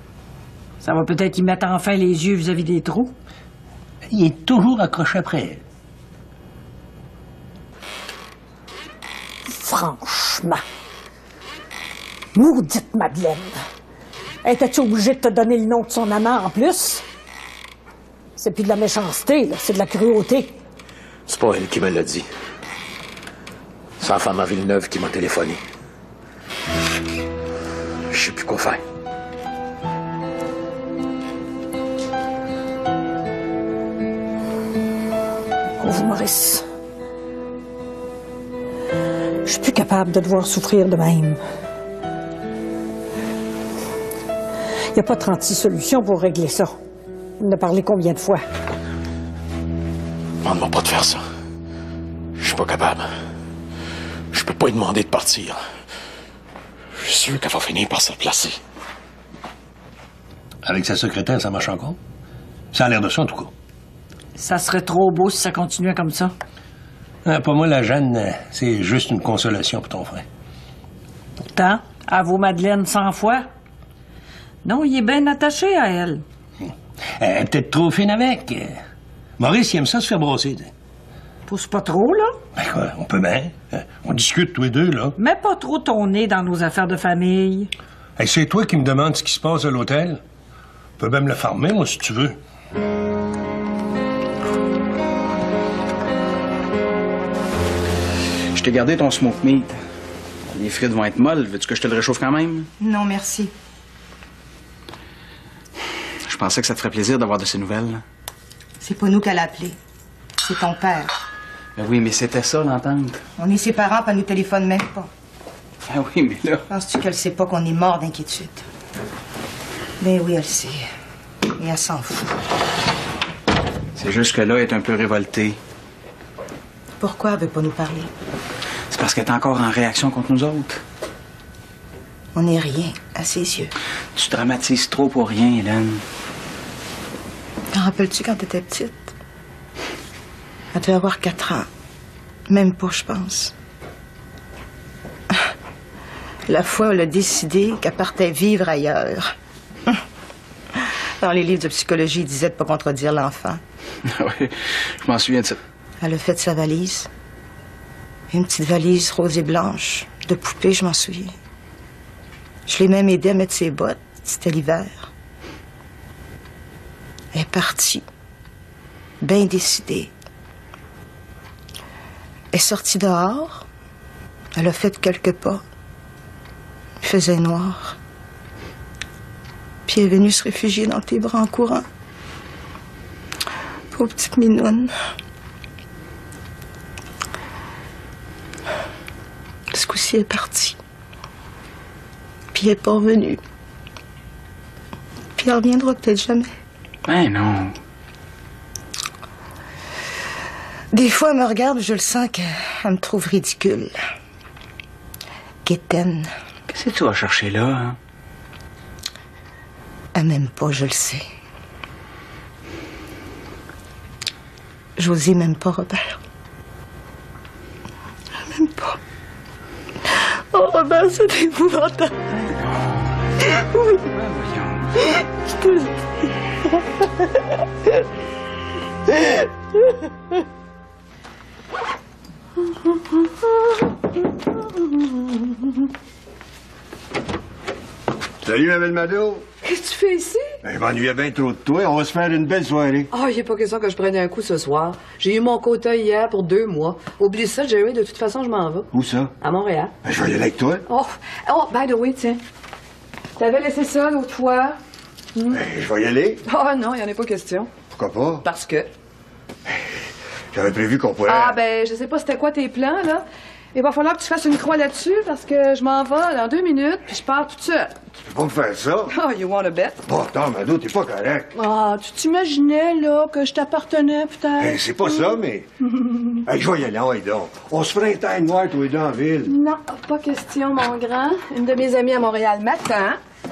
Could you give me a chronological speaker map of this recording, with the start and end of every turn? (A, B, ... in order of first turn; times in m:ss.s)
0:00.8-0:03.1 A
0:04.1-0:05.6 B
0:09.4-0:10.6 A
0:12.3-0:13.6 A
0:14.4-0:17.0 A
0:18.4-0:20.5 A
0:21.3-0:22.3 C
0:24.0-0:25.6 C
0:28.1-0:28.8 C
0:35.8-0:36.6 A
0:39.4-0:41.4 A
0:44.9-0:46.8 A
0:47.4-0:48.4 A
0:50.4-0:51.2 C
0:52.4-0:53.2 C
0:54.3-0:55.6 C
0:56.9-0:58.6 C
1:00.6-1:02.0 B
1:02.7-1:03.5 B
1:04.4-1:06.3 A
1:07.2-1:10.2 B
1:11.5-1:13.4 A
1:14.6-1:16.2 A
1:17.2-1:18.8 B
1:19.4-1:20.7 B
1:21.5-1:22.4 A
1:22.6-1:25.1 B
1:25.2-1:27.7 A
1:28.2-1:30.2 B
1:31.0-1:32.4 B
1:38.5-1:39.8 D
1:40.5-1:42.7 D
1:42.8-1:43.5 E
1:46.2-1:48.0 D
1:48.8-1:49.8 E
1:50.4-1:51.1 E
1:51.8-1:53.2 D
1:53.4-1:55.1 E
1:55.9-1:56.6 D
1:56.7-1:58.6 E
2:00.0-2:00.9 E
2:01.6-2:02.3 E
2:04.0-2:05.6 D
2:07.0-2:08.1 E
2:08.9-2:10.8 D
2:12.3-2:13.7 E
2:14.2-2:16.0 D
2:17.7-2:19.1 E
2:20.7-2:21.7 E
2:22.5-2:23.5 E
2:26.5-2:29.3 E
2:30.8-2:33.6 E
2:34.0-2:35.6 D
2:36.0-2:37.1 E
2:38.3-2:41.3 E
2:42.7-2:45.1 E
2:47.3-2:48.0 E
2:49.2-2:50.1 E
2:52.5-2:53.6 E
2:54.6-2:55.6 E
2:57.0-2:58.0 E
2:59.8-3:01.8 E
3:03.9-3:04.9 E
3:09.7-3:10.8 E
3:12.5-3:13.4 E
3:15.4-3:16.5 E
3:17.0-3:17.7 D
3:20.9-3:24.0 E
3:25.6-3:26.3 E
3:26.7-3:28.0 D
3:30.1-3:31.2 E
3:35.0-3:36.2 E
3:38.5-3:39.0 E
3:40.1-3:42.2 E
3:42.5-3:45.0 D
3:58.4-3:59.4 F
3:59.6-4:00.5 G
4:00.6-4:03.1 F
4:03.1-4:08.9 G
4:08.9-4:09.3 F
4:09.4-4:09.9 G
4:10.0-4:10.8 F
4:10.9-4:12.4 G
4:13.4-4:14.8 G
4:15.4-4:15.6 G
4:15.5-4:16.4 F
4:16.4-4:17.7 G
4:17.9-4:18.4 F
4:18.4-4:18.9 G
4:20.5-4:21.6 F
4:21.2-4:28.0 G
4:28.2-4:29.1 F
4:29.1-4:30.0 G
4:30.0-4:31.5 F
4:31.5-4:35.4 G
4:34.6-4:35.7 F
4:36.4-4:39.5 F
4:39.4-4:43.2 G